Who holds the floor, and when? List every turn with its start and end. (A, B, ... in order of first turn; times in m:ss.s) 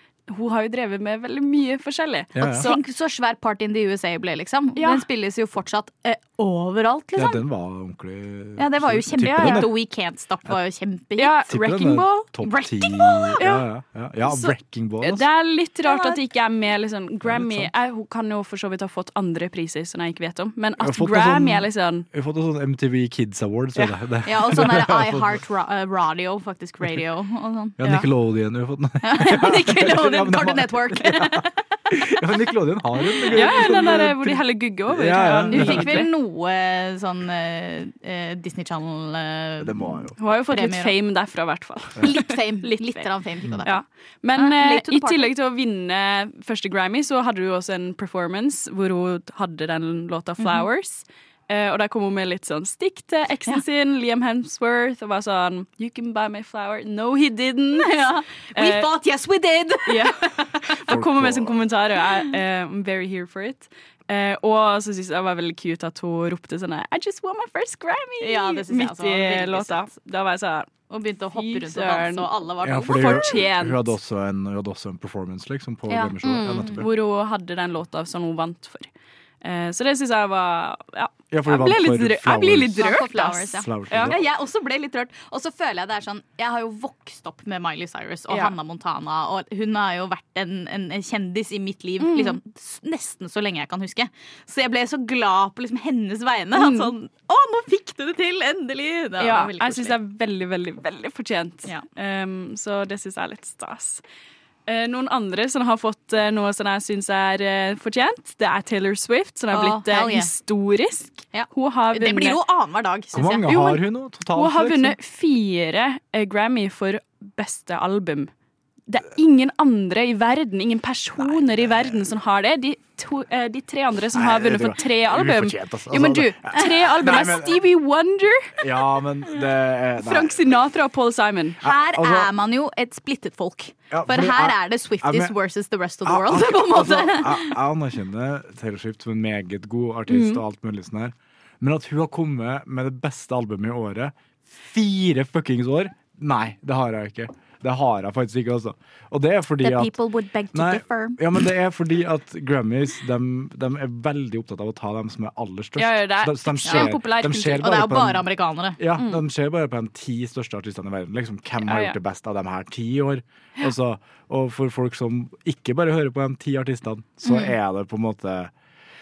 0:00.3-0:02.8 A
0:02.3-0:02.7 B
0:02.4-0:07.4 C
0:04.8-0:05.0 A
0:07.2-0:09.7 B
0:08.6-0:11.3 C
0:09.2-0:09.7 A
0:11.2-0:12.3 A
0:11.5-0:15.2 B
0:12.4-0:13.4 C
0:13.4-0:13.6 A
0:14.3-0:22.0 A
0:15.8-0:16.2 C
0:17.2-0:17.7 B
0:20.8-0:25.4 B
0:24.2-0:28.1 C
0:27.8-0:36.0 B
0:29.0-0:31.6 C
0:33.1-0:33.7 C
0:33.3-0:36.1 A
0:35.5-0:40.9 C
0:39.6-0:40.2 B
0:40.2-0:43.1 A
0:42.0-0:43.8 C
0:43.6-0:58.9 A
0:44.4-0:45.3 C
0:50.4-0:50.7 C
0:57.8-1:00.8 C
0:59.8-1:10.7 A
1:00.9-1:01.6 B
1:08.2-1:09.9 C
1:10.9-1:13.4 C
1:11.3-1:12.3 A
1:12.6-1:16.9 B
1:12.9-1:13.9 A
1:15.9-1:16.8 C
1:16.7-1:18.9 A
1:19.4-1:24.2 A
1:21.3-1:22.8 B
1:22.8-1:40.0 C
1:23.6-1:24.2 B
1:28.3-1:28.5 A
1:32.0-1:32.4 A
1:36.5-1:36.9 A
1:39.2-1:44.0 A
1:44.7-1:52.4 A
1:49.5-1:50.3 C
1:51.3-1:53.6 C
1:53.1-1:55.0 B
1:53.5-1:53.8 A
1:54.3-1:58.3 A
1:58.9-2:08.6 A
2:01.3-2:01.9 B
2:04.1-2:07.6 B
2:08.6-2:10.4 B
2:10.0-2:11.6 A
2:11.6-2:12.3 B
2:11.6-2:17.6 C
2:13.9-2:15.3 B
2:16.0-2:30.0 B
2:20.1-2:20.4 A
2:29.6-2:31.2 C
2:30.5-2:38.2 B
2:35.8-2:37.8 A
2:36.6-2:36.9 C
2:37.5-2:38.8 C
2:38.8-2:48.5 B
2:39.0-2:39.2 A
2:41.6-2:42.0 A
2:47.2-2:47.5 C